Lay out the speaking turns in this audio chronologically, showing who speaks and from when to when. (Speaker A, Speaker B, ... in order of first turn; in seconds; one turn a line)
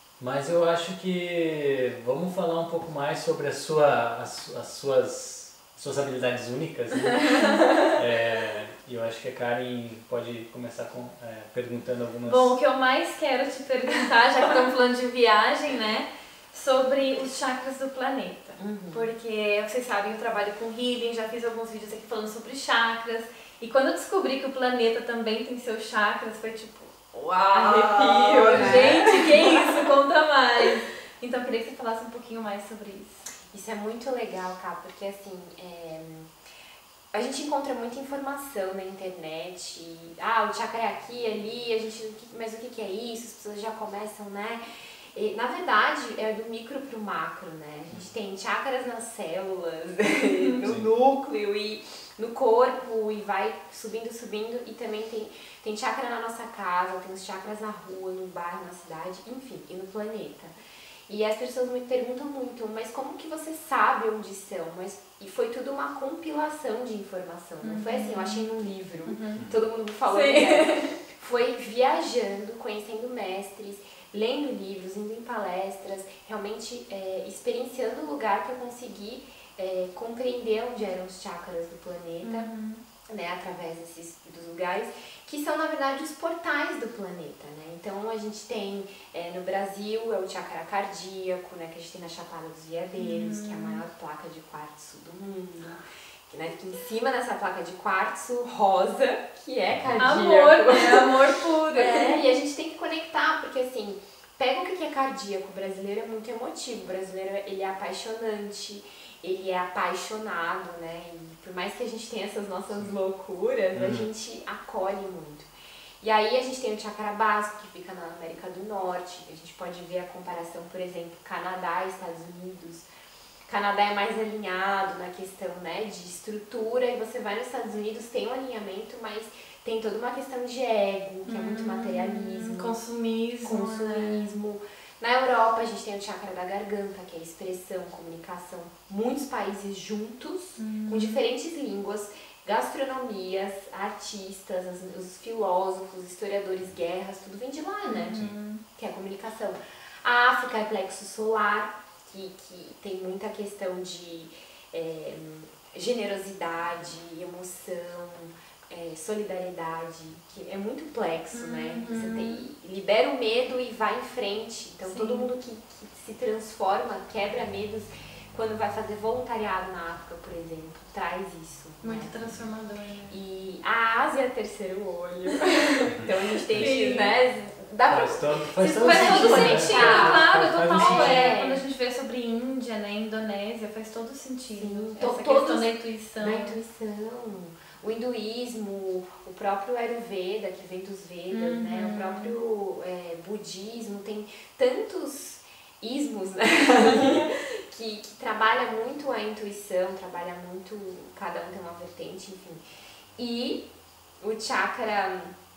Speaker A: 0.2-12.6
Speaker B: 7.0-8.0
Speaker B: 12.2-33.2
Speaker C: 18.6-19.1
Speaker C: 27.5-29.9
Speaker C: 33.5-36.3
Speaker C: 37.1-44.6
Speaker C: 45.1-60.5
Speaker C: 61.1-82.5
Speaker B: 67.6-68.5
Speaker B: 69.1-69.5
Speaker B: 70.1-70.9
Speaker B: 82.2-82.8
Speaker C: 83.1-101.2
Speaker B: 93.0-93.8
Speaker B: 100.0-102.2
Speaker C: 101.7-122.9
Speaker A: 113.7-114.1
Speaker C: 123.5-132.8
Speaker B: 131.2-134.3
Speaker C: 133.4-148.2
Speaker B: 140.6-141.2
Speaker B: 147.8-148.6
Speaker C: 148.8-172.3
Speaker B: 161.3-162.4
Speaker B: 164.8-165.3
Speaker B: 171.8-173.2
Speaker C: 173.1-181.6
Speaker A: 175.9-176.8
Speaker B: 176.5-177.2
Speaker A: 177.9-181.4
Speaker B: 178.6-186.6
Speaker C: 184.6-202.6
Speaker B: 191.3-192.4
Speaker C: 203.2-203.6
Speaker C: 204.2-205.3